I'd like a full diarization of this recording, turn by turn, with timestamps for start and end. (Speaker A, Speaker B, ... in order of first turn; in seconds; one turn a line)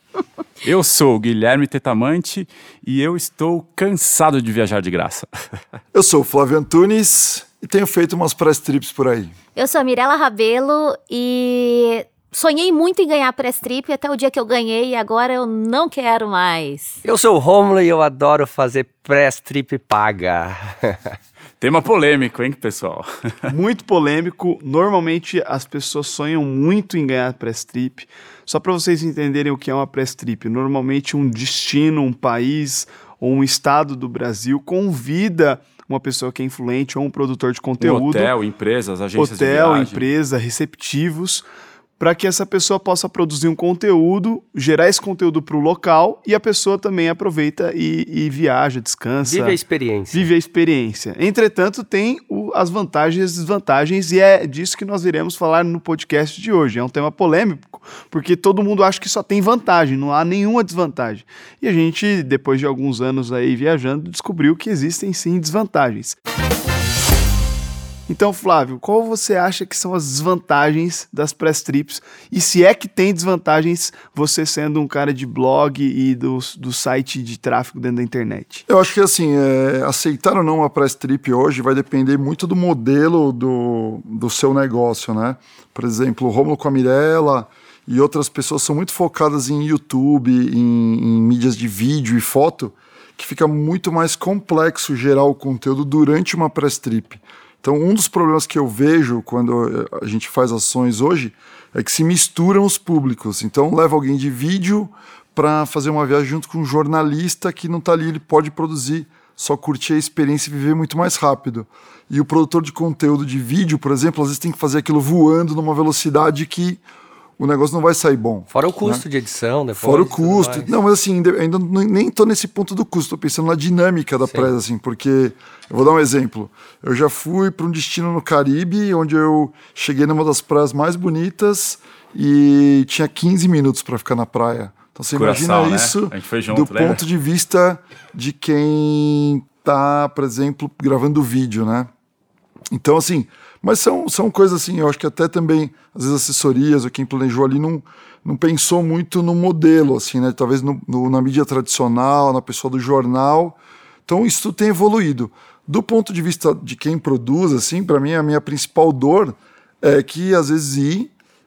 Speaker A: 0.6-5.5
Speaker B: 5.9-9.3
Speaker C: 9.6-17.0
Speaker D: 17.0-21.2
Speaker A: 21.6-23.5
Speaker E: 23.5-38.3
Speaker A: 37.8-40.1
Speaker E: 39.2-41.4
Speaker E: 42.0-49.6
Speaker D: 49.2-50.3
Speaker E: 50.1-66.2
Speaker E: 68.1-78.6
Speaker B: 78.7-116.8
Speaker B: 117.4-119.0
Speaker D: 118.5-120.7
Speaker B: 119.8-141.9
Speaker A: 135.2-137.0
Speaker B: 142.7-161.1